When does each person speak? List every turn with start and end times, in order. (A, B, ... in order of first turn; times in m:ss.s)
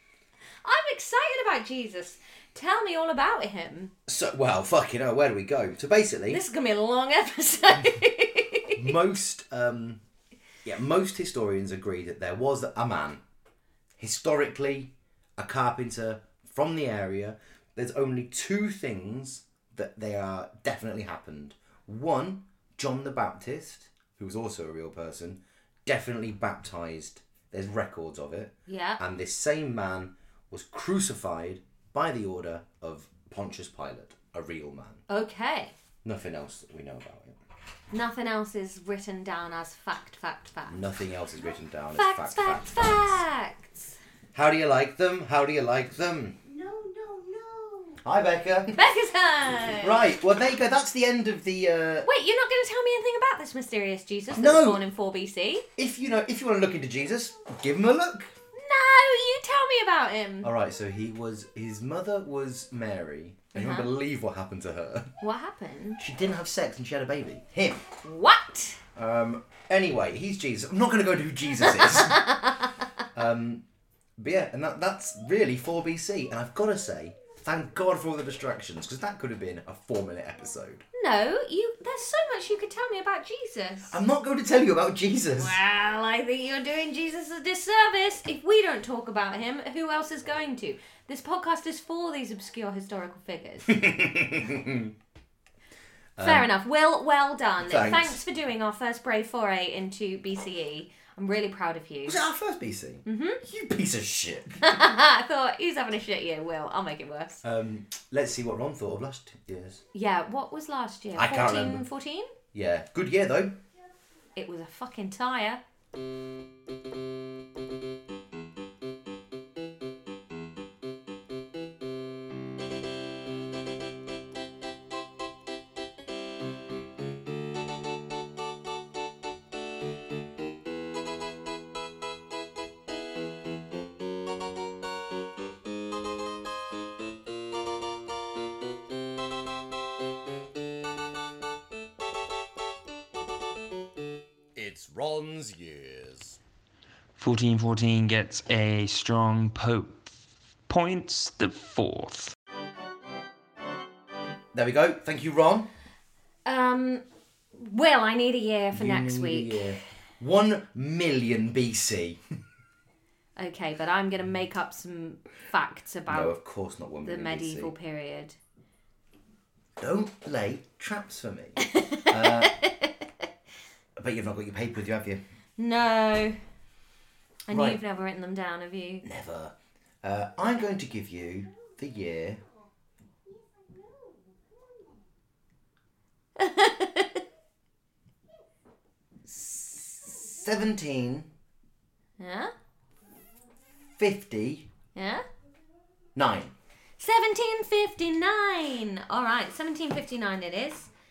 0:00.6-0:03.9 A
0:04.1-0:06.4 B
0:06.3-0:08.9 A
0:08.8-0:10.0 B
0:10.6-0:13.2 B
0:14.0-0:35.0 B
0:28.7-0:29.0 A
0:35.1-0:35.8 A
0:36.0-0:37.4 B
0:37.9-0:40.8 A
0:40.7-0:43.2 B
0:42.0-0:44.0 A
0:44.3-0:46.4 B
0:46.5-0:48.0 A
0:48.0-0:48.8 B
0:48.8-0:50.1 A
0:49.8-0:52.1 B
0:52.0-0:55.7 A
0:54.3-0:54.8 B
0:55.8-0:58.3 B
0:58.5-1:00.5 A
1:00.4-1:05.1 B
1:03.5-1:03.9 A
1:05.2-1:06.0 A
1:06.0-1:07.8 B
1:08.0-1:08.8 A
1:09.0-1:12.4 B
1:11.8-1:12.6 A
1:13.1-1:13.6 B
1:14.2-1:20.8 B
1:21.0-1:24.0 A
1:23.9-1:25.6 B
1:25.4-1:33.8 A
1:33.7-1:35.0 B
1:36.2-1:36.5 B
1:36.2-1:42.2 A
1:37.6-1:38.2 B
1:42.0-1:44.8 B
1:43.0-1:43.4 A
1:44.6-1:47.4 A
1:47.4-1:49.8 B
1:49.9-1:52.3 A
1:51.2-1:51.8 B
1:52.5-1:53.6 B
1:54.4-1:55.6 A
2:24.6-2:26.4 B
2:27.2-2:30.1 C
2:30.7-2:32.4 C
2:34.5-2:35.7 B
2:36.5-2:39.6 A
2:38.7-2:42.2 B
2:43.4-2:46.3 A
2:46.1-2:47.7 B
2:47.0-2:48.4 A
2:49.8-2:52.6 B
2:51.6-2:53.0 A
2:54.0-2:55.2 B
2:55.6-2:56.4 A
2:57.5-2:59.1 A
2:57.5-2:57.8 B
2:59.0-3:02.4 B
3:06.4-3:07.2 A
3:09.4-3:11.3 B
3:12.2-3:12.5 A
3:14.0-3:14.7 B
3:15.0-3:15.2 A
3:16.2-3:16.5 B
3:17.0-3:20.9 A